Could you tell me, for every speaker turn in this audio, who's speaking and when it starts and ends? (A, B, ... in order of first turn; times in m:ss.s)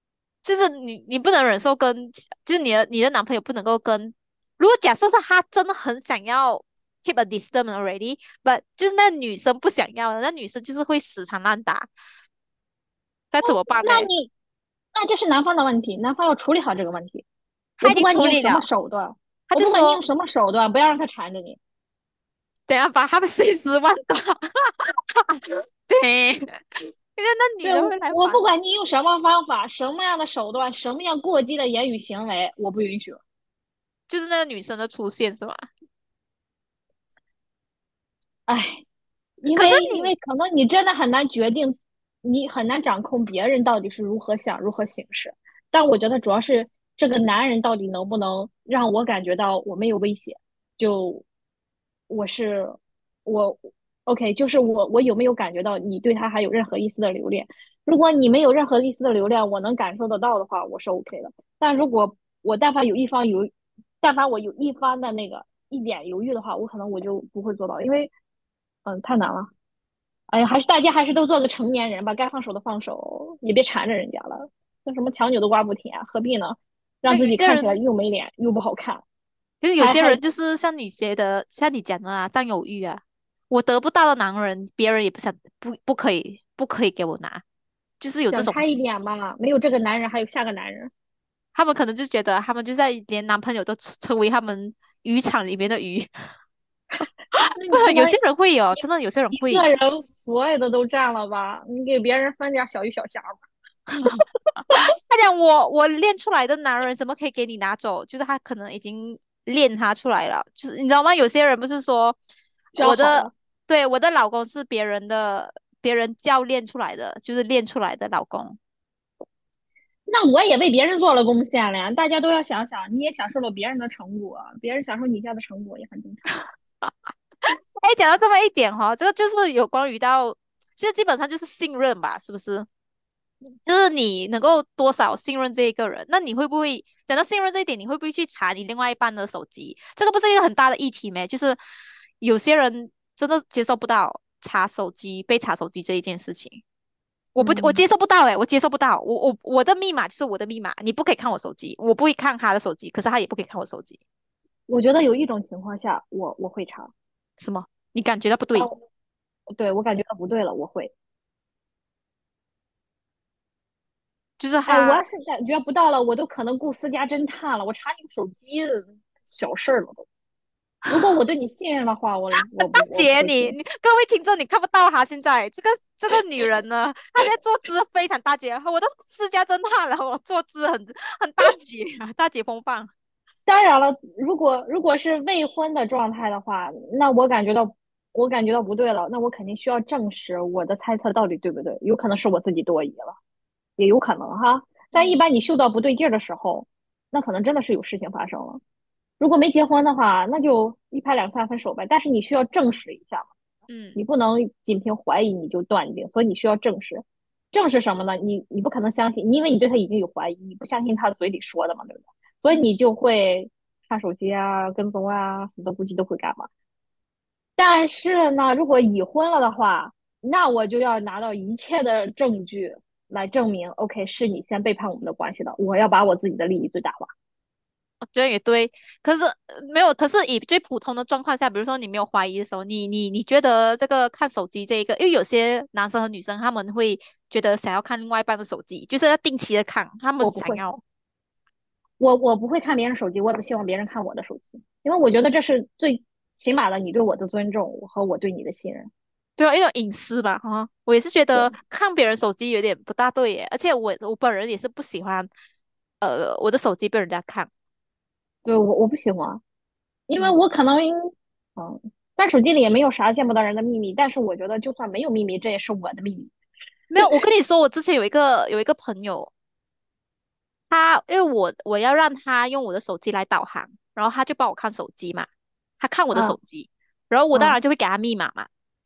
0:00.4-0:11.9 A
0:13.3-0:14.1 A
0:13.4-0:14.3 B
0:14.9-0:17.2 B
0:17.8-0:18.6 A
0:17.8-0:21.6 B
0:19.5-0:20.0 A
0:22.7-0:28.4 A
0:27.6-0:33.2 B
0:34.1-0:35.6 A
0:38.5-0:38.8 B
0:39.4-0:51.2 B
0:39.5-0:40.1 A
0:52.1-1:08.1 B
1:08.8-1:09.5 B
1:10.3-1:19.0 B
1:17.1-1:17.8 A
1:19.6-1:27.4 A
1:19.8-1:20.2 B
1:28.0-1:28.8 A
1:28.3-1:30.9 B
1:31.5-1:36.1 A
1:37.3-1:39.8 A
1:37.3-1:38.2 B
1:39.3-1:43.4 B
1:43.9-1:52.2 A
1:52.8-1:53.3 B
1:52.8-1:58.6 A
2:00.1-2:06.2 B
2:06.8-2:12.6 A
2:13.6-2:21.6 A
2:22.2-2:26.6 A
2:27.3-2:34.0 A
2:27.4-2:27.8 B
2:34.7-2:36.9 B
2:37.4-2:38.7 A
2:39.5-2:40.9 B
2:44.4-2:45.0 A
2:44.7-2:50.0 B
2:50.8-2:51.1 A
2:50.9-2:53.6 B
2:52.6-3:02.9 A
3:03.5-3:13.2 B
3:13.8-3:18.6 B
3:14.9-3:15.2 A
3:19.2-3:23.3 B
3:23.7-3:24.0 A
3:24.0-3:36.5 B
3:37.6-3:47.1 B
3:48.1-4:00.8 A
4:00.2-4:00.6 B
4:02.0-4:08.9 B
4:09.4-4:15.3 A
4:16.0-4:17.5 A
4:18.4-4:19.4 B
4:20.1-4:20.9 B
4:21.6-4:26.3 B
4:26.9-4:29.3 A
4:30.7-4:35.3 A
4:35.8-4:38.5 A
4:37.3-4:37.6 B